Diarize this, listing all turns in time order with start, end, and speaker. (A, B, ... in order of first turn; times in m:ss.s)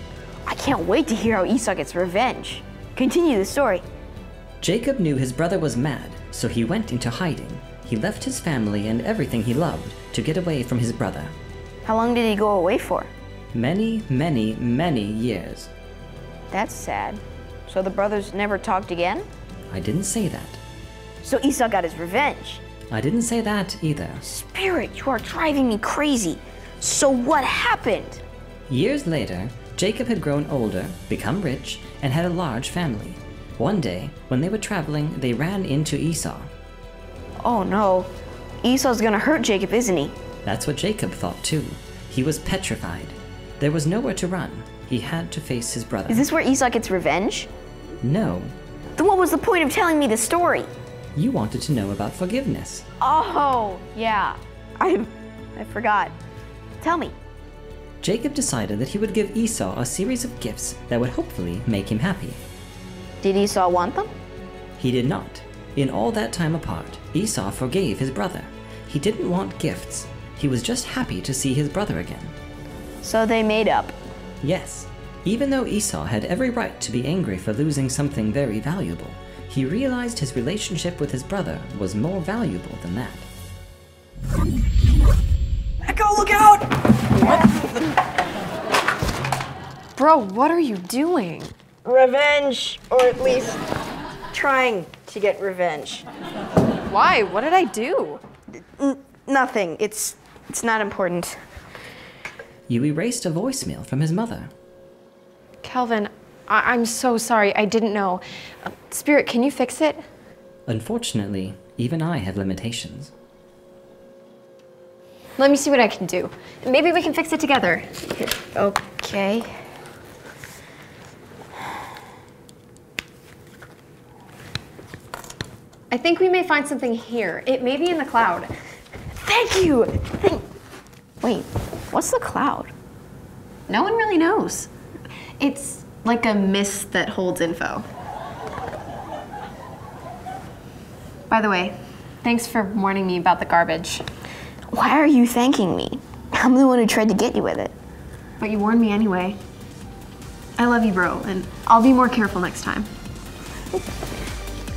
0:00.4-0:03.8 A
0:04.6-0:11.3 B
0:11.8-0:13.1 A
0:13.5-0:15.7 B
0:16.5-0:19.3 A
0:19.7-0:20.6 B
0:21.2-0:22.6 A
0:22.9-0:24.2 B
0:24.2-0:28.2 A
0:28.7-0:36.5 B
0:37.4-0:38.1 A
0:38.6-0:40.1 A
0:40.4-0:46.2 B
0:46.1-0:47.5 A
0:48.0-0:48.5 B
0:49.0-0:50.7 A
0:51.2-0:52.8 B
0:53.0-0:56.1 A
0:56.8-0:57.2 A
0:58.0-1:02.4 B
1:03.2-1:04.1 A
1:04.8-1:12.3 B
1:13.0-1:14.0 A
1:14.4-1:23.2 B
1:25.8-1:27.8 A
1:30.0-1:31.5 C
1:31.8-1:33.6 A
1:34.3-1:36.0 A
1:36.9-1:38.2 C
1:38.6-1:41.4 A
1:42.7-1:44.5 B
1:45.6-1:50.0 C
1:50.7-1:53.1 B
1:55.4-1:57.9 C
1:58.1-1:59.5 A
2:05.9-2:08.5 C
2:09.2-2:10.4 A
2:11.2-2:12.7 A
2:13.7-2:14.7 C
2:15.4-2:17.9 C
2:21.3-2:24.0 C
2:24.7-2:27.7 A
2:28.4-2:29.4 C
2:30.6-2:32.9 C